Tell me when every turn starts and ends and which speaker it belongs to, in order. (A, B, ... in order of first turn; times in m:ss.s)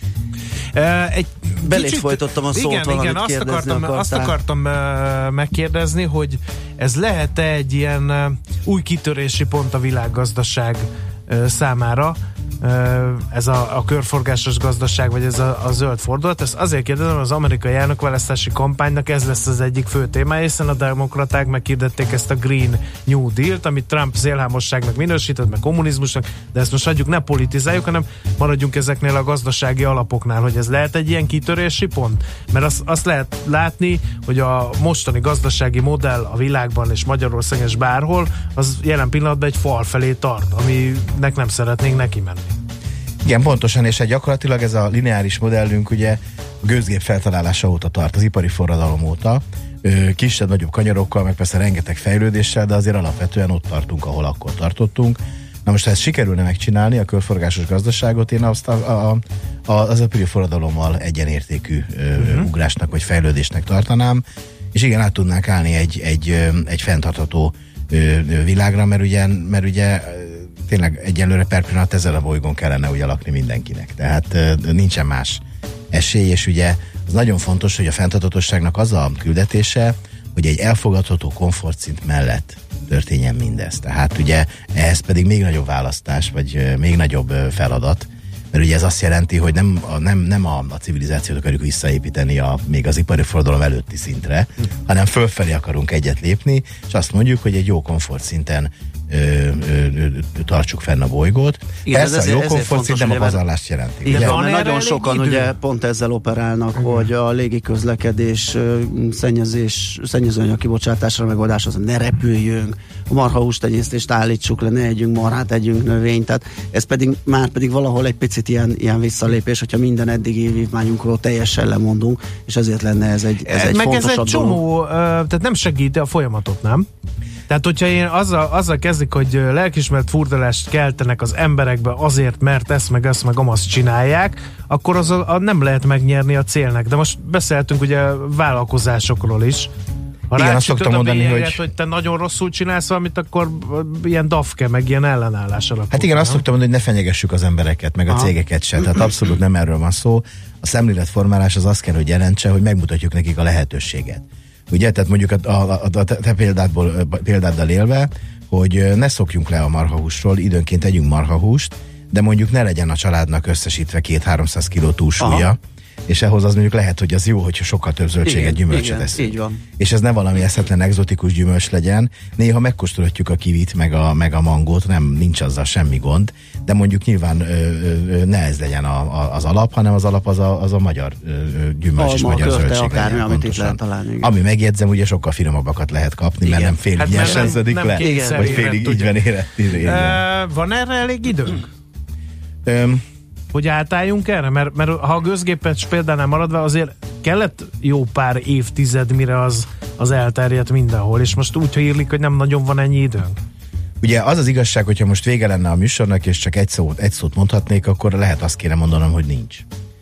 0:00.8-0:42.6 A
0:01.6-0:04.4 B
0:43.2-1:44.4 C
1:02.2-1:02.5 A
1:41.9-1:43.4 B
1:44.0-2:04.6 B
1:44.1-1:45.5 A
1:46.8-1:47.1 A
2:03.5-2:06.9 A
2:07.5-2:19.7 A
2:20.3-2:26.4 A
2:20.3-2:21.6 C
2:25.9-3:10.2 C
2:45.2-2:45.5 B
2:48.2-2:49.6 B
3:02.0-3:04.3 B
3:06.4-3:08.7 B
3:07.0-3:09.1 A
3:09.8-3:11.7 A
3:12.6-3:13.0 C
3:13.5-3:23.4 A
3:24.0-3:29.6 C